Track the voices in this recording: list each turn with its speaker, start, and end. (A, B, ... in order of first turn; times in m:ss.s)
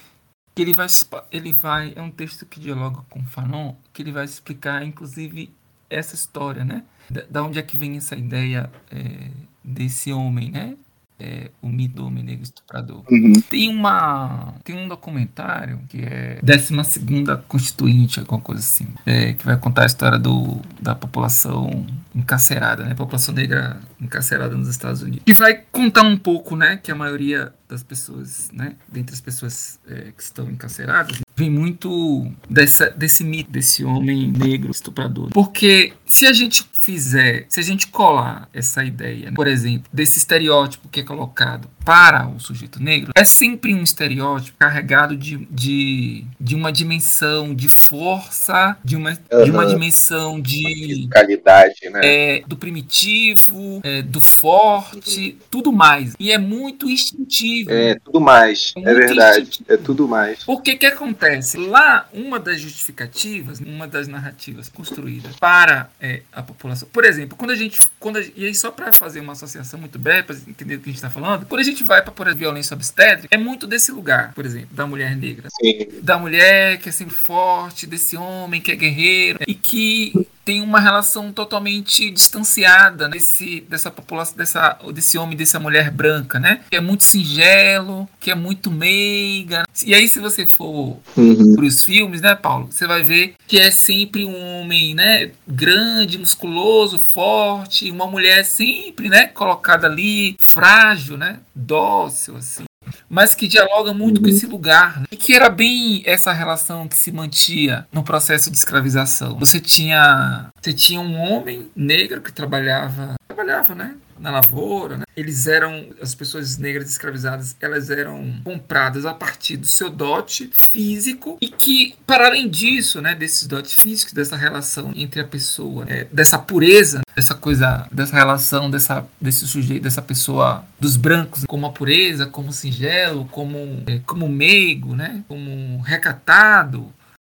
0:00.6-0:51.1 A
0:13.1-0:13.4 B
0:49.3-0:49.8 B
0:50.8-0:52.2 B
0:52.0-0:58.0 A
0:57.7-1:00.5 B
0:58.8-1:00.0 A
1:00.5-2:16.9 A
1:15.5-1:16.0 B
1:31.2-1:31.6 B
1:44.0-1:44.4 B